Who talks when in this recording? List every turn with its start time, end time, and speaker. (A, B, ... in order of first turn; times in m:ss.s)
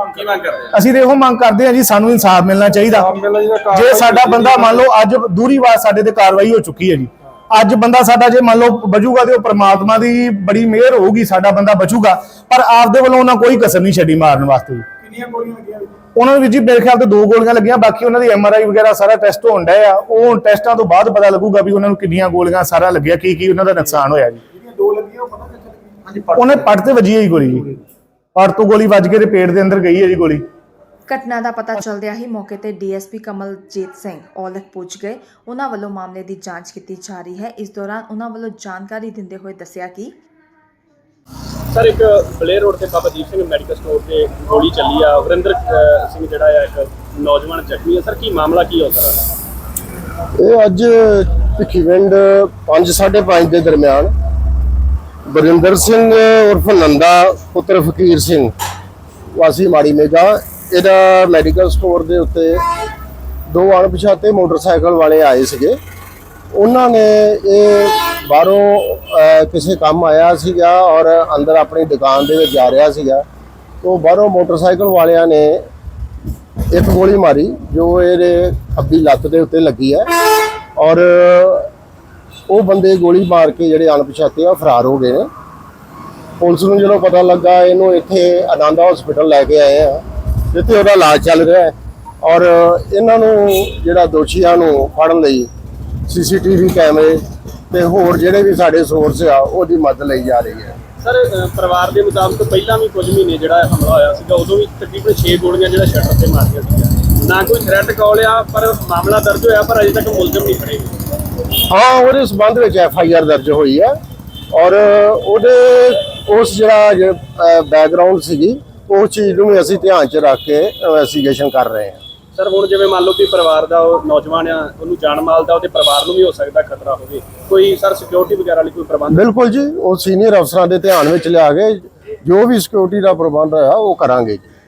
0:00.1-0:00.8 A
0:00.7-0:03.2 B
0:02.9-0:04.8 C
0:03.7-0:14.9 B
0:15.1-0:15.9 C
0:16.0-0:24.4 B
0:24.6-0:26.1 C
0:26.3-0:27.7 B
0:28.4-0:30.4 B
0:31.1-0:40.1 D
0:41.7-0:49.2 A
0:50.3-0:54.1 E
0:55.3-0:58.5 E
0:59.3-1:02.6 E
1:03.5-1:05.8 E
1:06.5-1:13.2 E
1:13.8-1:15.7 E
1:16.7-1:21.7 E
1:22.5-1:25.3 E
1:26.4-1:35.5 E
1:36.0-1:40.8 E
1:41.0-1:51.0 A
1:51.7-1:53.9 E
1:54.5-2:02.0 E
2:02.3-2:09.3 A
2:09.1-2:14.5 E